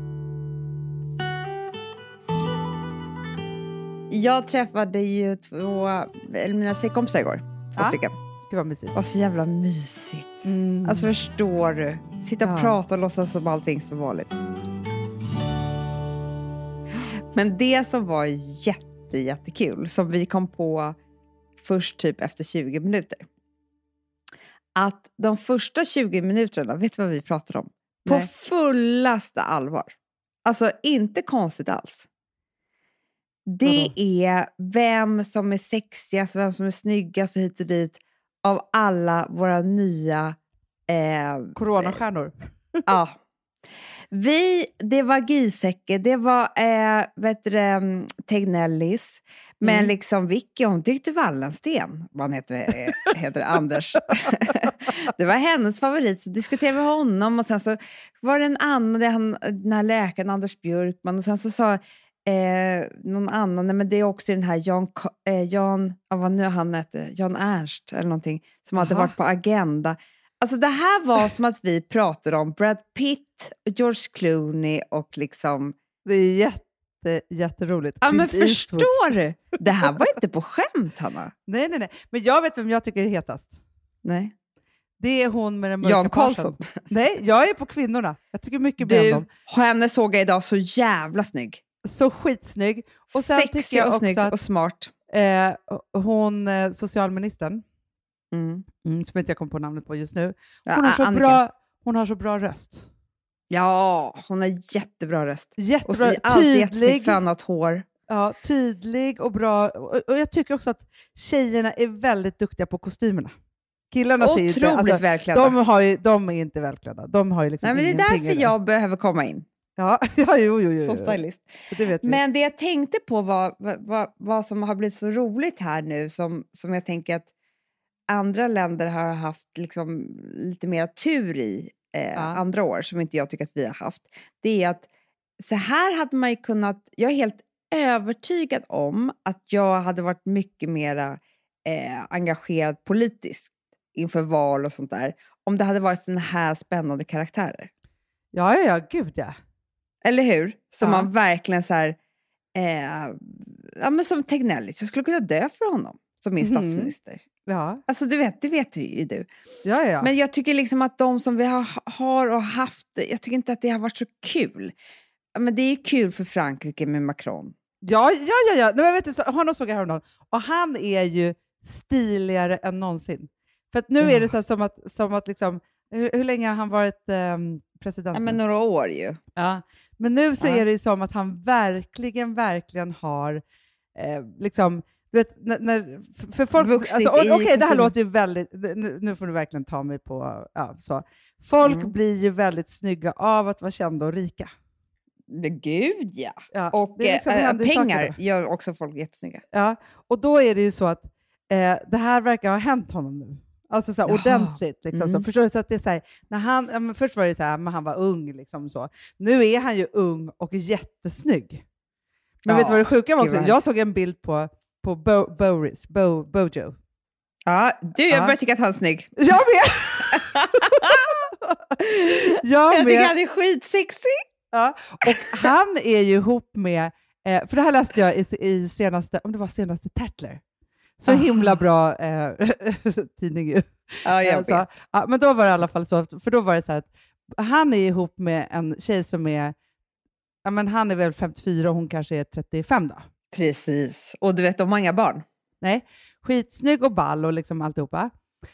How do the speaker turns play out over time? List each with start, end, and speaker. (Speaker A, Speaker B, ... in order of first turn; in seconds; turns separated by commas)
Speaker A: 4.1-8.1, Speaker B: 7.8-8.9, Speaker A: 8.9-14.3, Speaker B: 10.4-11.1, Speaker B: 12.4-12.8, Speaker A: 17.3-20.9, Speaker A: 21.6-23.2, Speaker A: 24.8-32.1, Speaker A: 33.5-40.4, Speaker B: 33.6-33.9, Speaker A: 40.9-42.0, Speaker B: 41.5-42.8, Speaker A: 42.9-43.1, Speaker A: 44.1-75.7, Speaker B: 49.6-49.9, Speaker B: 68.8-69.1, Speaker B: 76.0-78.9, Speaker A: 78.0-81.3, Speaker B: 81.5-83.5, Speaker A: 84.0-84.3, Speaker B: 85.0-89.3, Speaker A: 85.8-86.7, Speaker A: 88.8-91.6, Speaker B: 91.8-94.3, Speaker A: 93.1-94.9, Speaker B: 95.1-97.6, Speaker A: 98.3-98.7, Speaker B: 98.8-102.9, Speaker A: 100.7-101.4, Speaker A: 103.5-107.8, Speaker B: 105.6-107.2, Speaker B: 108.1-113.3, Speaker B: 113.9-118.5, Speaker A: 114.2-115.5, Speaker A: 117.6-119.4, Speaker B: 119.8-121.2, Speaker A: 120.8-127.3, Speaker B: 121.7-122.2, Speaker A: 128.1-134.9, Speaker B: 132.2-132.4, Speaker A: 135.4-147.7, Speaker B: 148.3-149.3, Speaker A: 150.0-152.0, Speaker B: 150.8-151.1, Speaker A: 152.6-157.2, Speaker B: 156.4-156.9, Speaker B: 157.5-157.8, Speaker A: 157.9-159.3, Speaker B: 159.6-160.1, Speaker A: 160.0-164.7, Speaker A: 165.3-167.5, Speaker B: 167.8-178.4, Speaker A: 174.0-174.3, Speaker A: 178.1-179.2, Speaker B: 179.3-183.4, Speaker B: 183.9-194.5, Speaker A: 186.6-187.9, Speaker A: 191.6-191.9, Speaker A: 195.3-199.4, Speaker B: 196.5-198.1, Speaker B: 199.5-211.6, Speaker A: 204.1-205.2, Speaker B: 212.4-216.7, Speaker A: 212.5-213.6, Speaker A: 217.4-219.1, Speaker B: 218.1-218.3, Speaker B: 219.2-223.1, Speaker A: 220.1-221.0, Speaker A: 221.8-224.2, Speaker B: 224.5-230.4, Speaker B: 231.0-239.5, Speaker A: 231.1-231.6, Speaker A: 234.0-234.6, Speaker B: 240.4-243.0, Speaker A: 243.3-245.2, Speaker B: 245.6-248.1